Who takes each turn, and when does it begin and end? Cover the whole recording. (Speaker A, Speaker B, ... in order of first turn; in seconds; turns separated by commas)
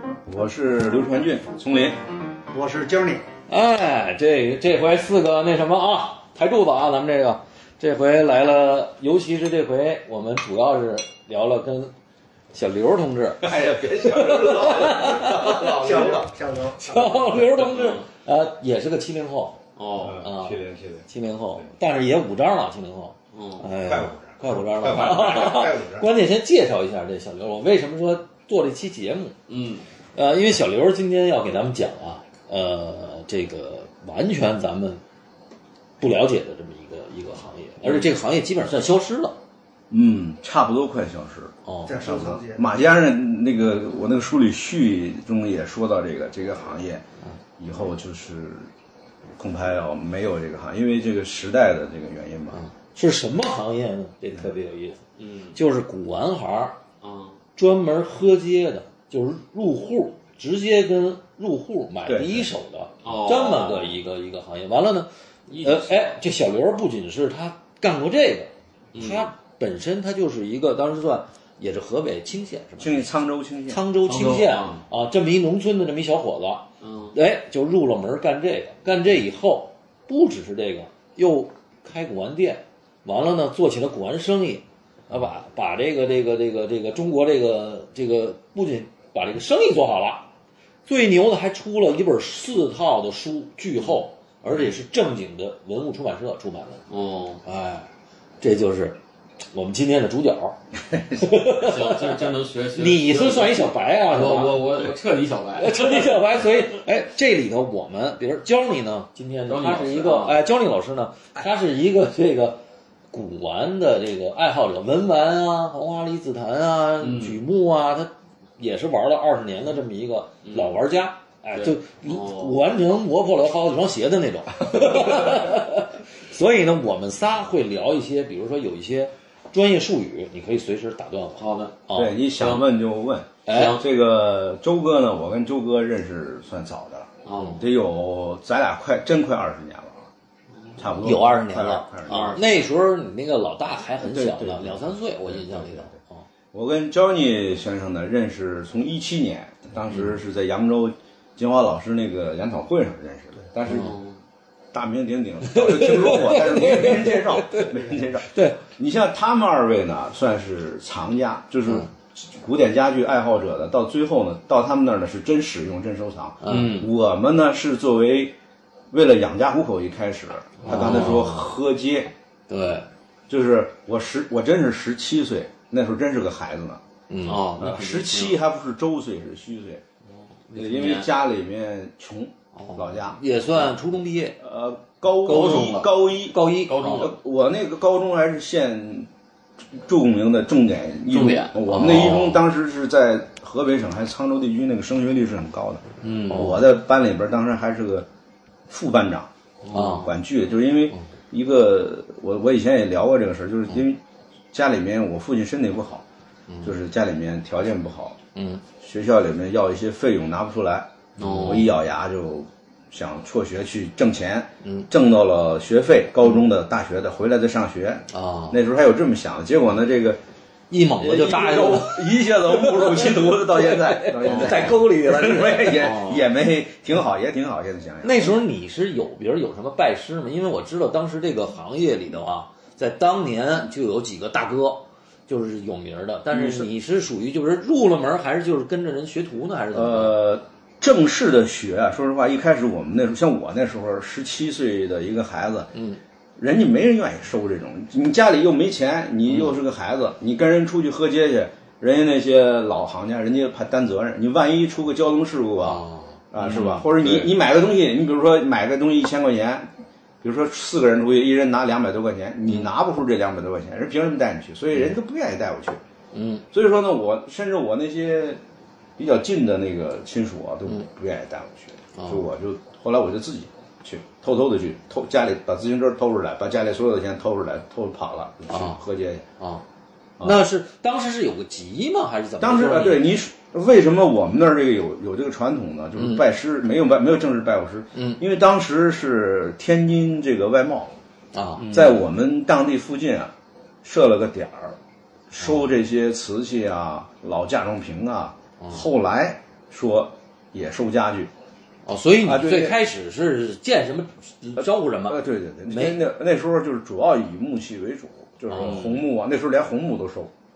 Speaker A: 0.2-2.0, Speaker B: 2.5-3.2, Speaker C: 3.5-11.9, Speaker C: 12.5-16.0, Speaker A: 13.4-16.2, Speaker B: 15.1-17.5, Speaker C: 16.8-19.6, Speaker D: 17.7-18.0, Speaker D: 19.8-20.2, Speaker A: 19.9-21.7, Speaker C: 20.2-29.3, Speaker D: 23.3-23.7, Speaker A: 23.8-26.1, Speaker D: 29.5-29.8, Speaker C: 30.1-35.0, Speaker C: 36.0-39.4, Speaker A: 39.9-47.0, Speaker C: 41.6-41.9, Speaker B: 41.9-42.7, Speaker A: 47.6-48.7, Speaker A: 49.4-52.6, Speaker C: 52.5-55.0, Speaker D: 55.2-55.5, Speaker C: 55.5-56.8, Speaker D: 57.0-57.4, Speaker C: 57.6-73.1, Speaker A: 62.0-62.5, Speaker D: 63.0-64.0, Speaker D: 65.5-66.1, Speaker D: 68.9-69.3, Speaker A: 72.8-73.8, Speaker C: 73.7-90.3, Speaker D: 74.0-74.8, Speaker D: 76.8-77.1, Speaker C: 90.9-96.8, Speaker D: 96.9-97.4, Speaker C: 97.4-97.9, Speaker C: 98.4-99.0, Speaker C: 99.5-100.6, Speaker A: 100.9-101.3, Speaker C: 101.1-104.6, Speaker D: 101.4-106.2, Speaker C: 105.6-112.6, Speaker D: 109.5-110.4, Speaker C: 113.1-132.2, Speaker D: 117.0-117.4, Speaker D: 120.4-120.8, Speaker D: 121.5-122.6, Speaker D: 131.4-131.8, Speaker A: 131.9-140.1, Speaker D: 132.4-132.6, Speaker C: 133.4-133.8, Speaker D: 133.5-133.8, Speaker D: 137.2-137.7, Speaker D: 140.5-140.9, Speaker A: 140.8-142.4, Speaker C: 141.0-146.2, Speaker D: 142.0-142.5, Speaker A: 144.0-145.9, Speaker A: 146.5-153.9, Speaker D: 153.7-154.2, Speaker C: 153.7-153.9, Speaker A: 154.7-168.3, Speaker C: 155.5-157.7, Speaker C: 158.3-158.6, Speaker C: 166.4-166.8, Speaker D: 166.4-166.9, Speaker A: 168.9-172.1, Speaker D: 170.6-171.1, Speaker C: 170.7-171.5, Speaker C: 172.5-172.8, Speaker A: 173.3-176.8, Speaker C: 177.1-177.5, Speaker D: 177.2-178.4, Speaker A: 177.6-179.8, Speaker D: 180.1-181.1, Speaker A: 180.5-183.2, Speaker D: 182.6-182.8, Speaker C: 183.0-184.4, Speaker A: 184.4-189.1, Speaker C: 185.2-187.1, Speaker D: 185.3-185.8, Speaker D: 186.7-187.2, Speaker A: 189.7-198.1, Speaker D: 191.1-192.0, Speaker C: 191.7-192.4, Speaker D: 196.0-196.6, Speaker C: 196.3-196.6, Speaker A: 198.7-199.3, Speaker D: 199.6-200.1, Speaker C: 199.7-200.1, Speaker A: 199.9-204.0, Speaker A: 204.5-206.0, Speaker A: 206.6-208.2, Speaker C: 208.3-208.6, Speaker A: 208.8-220.2, Speaker C: 211.2-211.7, Speaker D: 211.2-211.7, Speaker C: 214.6-214.9, Speaker C: 218.1-218.6, Speaker C: 220.7-225.9, Speaker A: 221.0-228.3, Speaker D: 225.8-226.2, Speaker C: 228.0-240.2, Speaker A: 236.3-236.7, Speaker A: 239.7-245.7, Speaker C: 245.7-246.0, Speaker A: 246.4-265.8, Speaker C: 255.6-256.2, Speaker D: 256.4-257.2, Speaker C: 266.1-266.4, Speaker A: 266.5-268.4, Speaker A: 269.0-279.3, Speaker C: 271.9-272.3, Speaker C: 278.5-278.8, Speaker C: 279.4-279.6, Speaker C: 280.2-283.1, Speaker A: 282.4-290.9, Speaker C: 286.0-286.2, Speaker C: 287.9-288.2, Speaker C: 291.3-291.7, Speaker D: 291.6-291.9, Speaker A: 291.7-294.8, Speaker A: 295.3-301.3, Speaker C: 298.6-298.9, Speaker C: 301.8-306.0, Speaker A: 302.2-302.8, Speaker A: 304.6-310.3, Speaker C: 308.5-308.8, Speaker D: 308.5-309.0